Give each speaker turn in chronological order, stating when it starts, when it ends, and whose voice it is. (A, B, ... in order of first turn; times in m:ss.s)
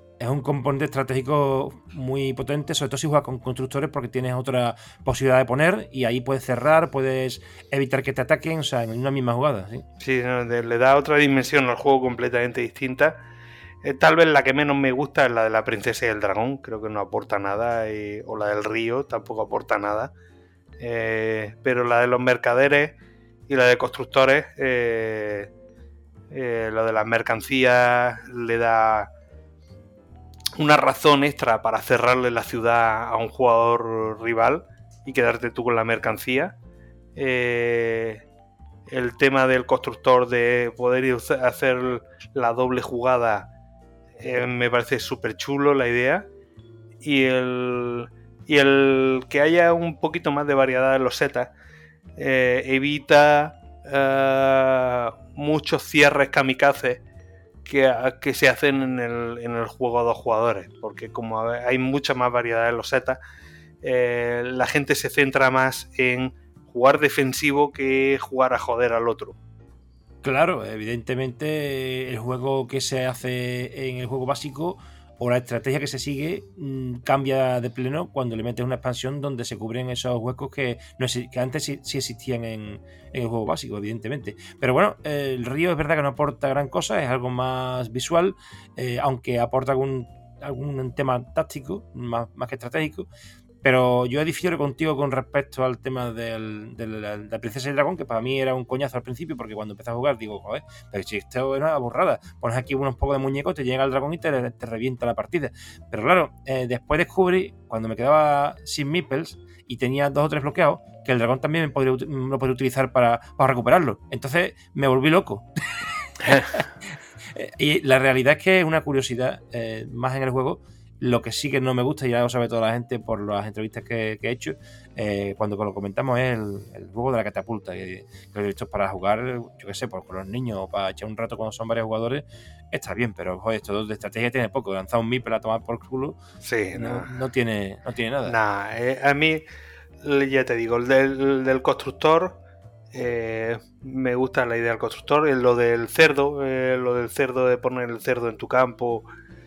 0:00.2-0:09.8 A
0:10.0-0:13.2 B
0:13.8-0:20.1 B
0:20.8-0:23.0 B
0:23.5-0:25.5 B
0:26.3-0:29.1 B
0:30.6-0:36.6 B
0:37.2-0:38.2 B
0:38.9-0:43.5 B
0:44.2-0:46.3 B
0:47.0-0:51.5 B
0:52.2-0:57.0 B
0:57.6-1:03.2 B
1:03.8-1:09.4 B
1:10.2-1:33.1 A
1:33.6-1:55.5 A
1:56.2-1:56.7 A
1:57.3-2:16.2 A
2:16.4-2:17.1 B
2:16.7-2:18.4 A
2:18.2-2:19.4 B
2:20.0-2:22.4 B
2:22.9-2:29.1 B